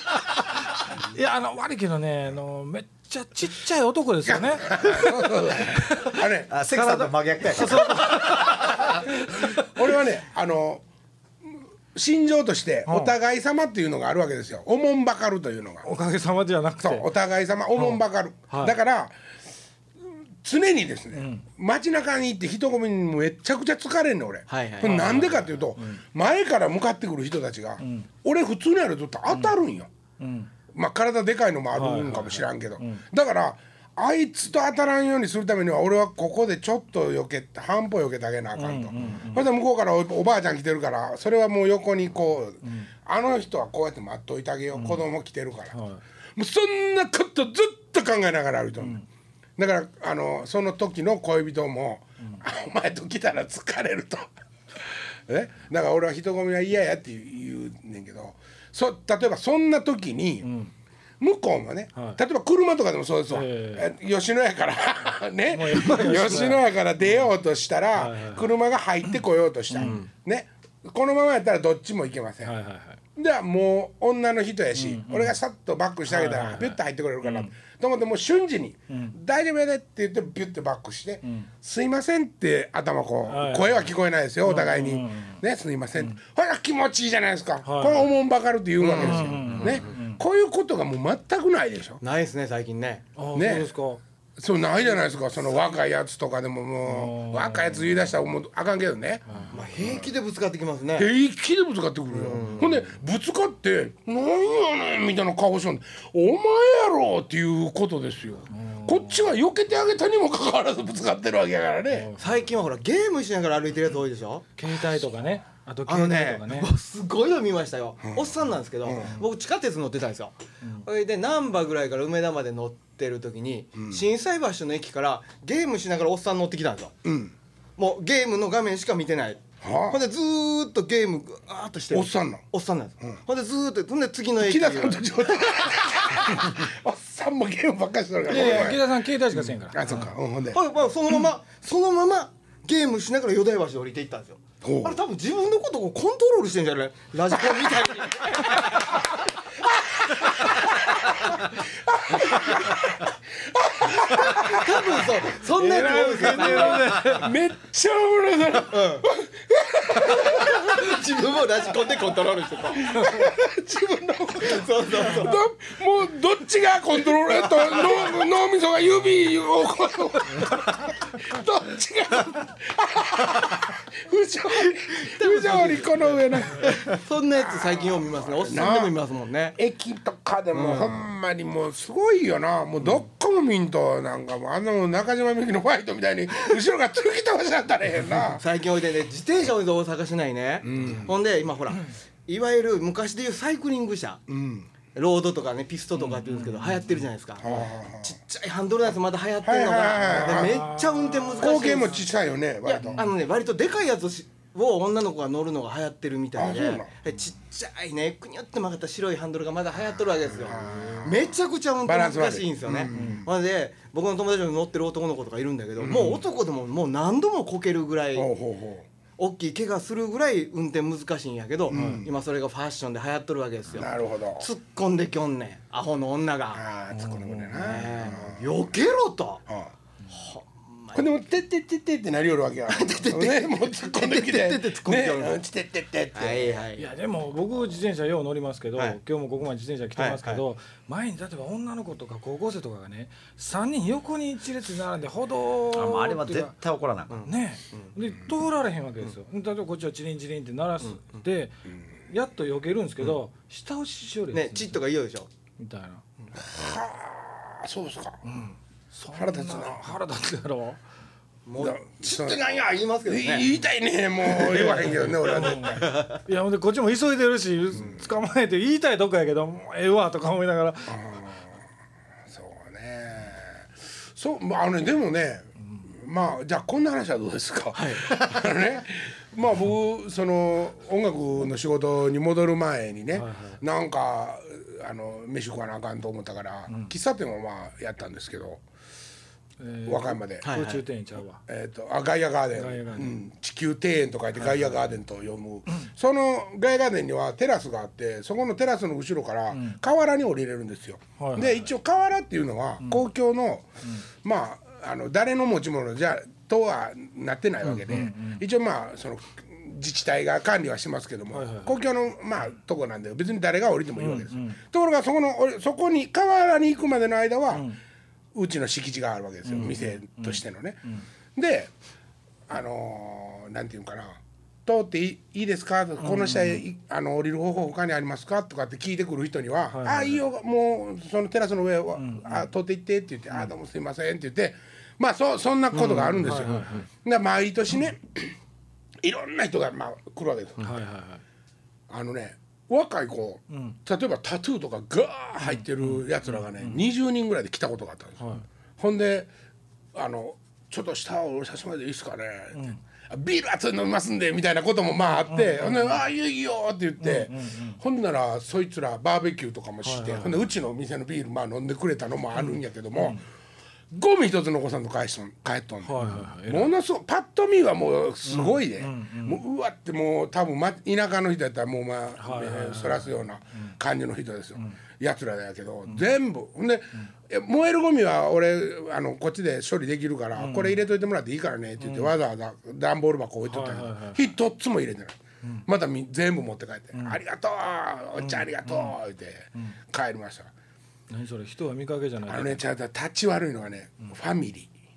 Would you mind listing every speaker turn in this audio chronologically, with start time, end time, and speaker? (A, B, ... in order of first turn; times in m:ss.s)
0:01.0-0:09.7 A
0:04.2-0:06.5 B
0:06.5-0:08.8 C
0:09.6-0:10.8 B
0:11.9-0:15.9 B
0:12.9-0:13.1 A
0:15.8-0:17.1 A
0:16.8-0:19.1 B
0:17.8-0:18.8 A
0:20.0-0:29.9 B
0:21.2-0:21.4 A
0:24.5-0:25.1 D
0:24.8-0:26.0 A
0:27.8-0:28.1 A
0:30.2-0:30.5 A
0:30.7-0:45.8 B
0:31.7-0:33.0 A
0:38.6-0:39.5 A
0:42.6-0:42.9 A
0:44.7-0:45.0 A
0:45.7-0:46.0 A
0:46.4-0:49.0 B
0:49.6-1:00.5 B
1:00.4-1:00.7 A
1:01.2-1:12.5 B
1:03.3-1:03.9 A
1:05.5-1:06.7 A
1:08.0-1:08.5 A
1:09.7-1:10.0 A
1:09.7-1:10.1 D
1:12.4-1:13.0 A
1:13.2-1:32.0 B
1:14.8-1:15.4 A
1:16.1-1:17.5 A
1:18.9-1:19.2 A
1:21.2-1:21.5 A
1:23.3-1:23.9 A
1:24.4-1:25.4 A
1:27.6-1:28.1 A
1:28.8-1:29.8 D
1:29.0-1:30.2 A
1:32.0-1:33.0 D
1:33.2-1:34.0 A
1:33.3-1:33.7 B
1:34.4-1:40.1 B
1:36.8-1:37.9 A
1:39.3-1:39.6 A
1:39.5-1:41.1 D
1:41.0-1:52.1 B
1:42.1-1:42.8 D
1:48.5-1:49.3 A
1:51.9-1:52.4 A
1:52.2-1:54.5 D
1:54.6-1:56.7 A
1:55.9-2:00.3 D
1:58.9-1:59.2 B
2:00.8-2:07.0 D
2:07.0-2:07.3 B
2:07.8-2:16.2 D
2:09.6-2:10.0 B
2:11.9-2:12.4 B
2:14.4-2:20.6 B
2:18.3-2:20.1 A
2:20.5-2:29.2 D
2:24.6-2:25.0 B
2:30.1-2:35.2 B
2:30.2-2:30.6 D
2:31.2-2:31.4 D
2:32.3-2:32.6 D
2:34.0-2:37.1 D
2:35.6-2:37.3 A
2:35.8-2:41.0 B
2:38.7-2:39.1 D
2:39.9-2:43.2 D
2:42.7-2:57.0 B
2:44.4-2:45.4 D
2:47.6-2:47.9 D
2:54.7-2:59.6 D
2:57.6-2:59.0 B
2:59.6-3:08.4 B
3:00.5-3:01.0 D
3:08.3-3:14.2 D
3:10.6-3:11.2 B
3:14.3-3:14.7 B
3:15.0-3:22.0 D
3:16.0-3:17.0 A
3:17.4-3:18.1 B
3:19.4-3:20.7 B
3:20.1-3:22.0 A
3:21.4-3:23.1 B
3:22.6-3:38.3 D
3:26.4-3:26.9 B
3:30.4-3:31.3 B
3:31.8-3:33.3 B
3:32.9-3:33.2 A
3:35.8-3:36.2 B
3:38.2-3:38.9 B
3:39.2-3:46.6 D
3:41.7-3:42.1 B
3:41.7-3:42.0 A
3:43.7-3:44.5 B
3:46.5-3:48.4 B
3:46.9-3:47.8 A
3:47.5-3:49.4 D
3:50.1-3:51.1 D
3:51.0-3:56.5 B
3:52.7-3:55.4 D
3:56.2-3:56.9 D
3:56.8-4:06.5 A
4:00.0-4:00.4 D
4:05.7-4:07.2 C
4:07.1-4:07.9 D
4:07.2-4:14.8 A
4:14.3-4:15.3 D
4:15.6-4:16.0 A
4:16.4-4:18.2 B
4:18.2-4:20.8 A
4:19.1-4:20.0 B
4:21.5-4:23.5 D
4:21.6-4:22.4 B
4:23.1-4:26.0 B
4:24.3-4:26.2 D
4:25.2-4:31.0 A
4:30.9-4:31.6 B
4:32.3-4:48.6 B
4:37.8-4:38.3 D
4:43.2-4:43.6 A
4:49.6-4:51.4 A
4:49.9-4:50.5 B
4:50.4-4:50.8 D
4:51.5-5:03.7 B
4:52.6-4:53.2 A
4:59.5-4:59.8 A
5:01.2-5:01.7 A
5:04.2-5:17.7 B
5:07.9-5:08.4 A
5:11.3-5:11.8 A
5:14.0-5:14.6 A
5:18.3-5:20.8 B
5:19.5-5:21.0 A
5:21.4-5:21.7 B
5:22.5-5:38.4 B
5:26.0-5:26.6 A
5:29.7-5:30.2 A
5:32.0-5:32.4 A
5:35.7-5:36.8 D
5:36.2-5:36.9 A
5:39.0-5:40.7 B
5:40.6-5:41.2 A
5:41.9-5:49.3 B
5:43.5-5:43.8 A
5:45.6-5:46.8 A
5:48.2-5:48.5 A
5:49.9-6:03.2 B
5:52.6-5:52.8 A
5:55.3-5:56.0 A
5:57.0-5:57.8 A
5:59.8-6:00.4 A
6:02.4-6:03.2 A
6:03.9-6:25.2 B
6:05.8-6:06.7 A
6:08.3-6:09.4 A
6:12.2-6:13.7 A
6:20.4-6:20.8 A
6:21.8-6:22.1 A
6:23.4-6:24.3 A
6:25.7-6:30.5 B
6:28.2-6:29.0 A
6:31.1-6:32.6 A
6:32.3-6:34.7 B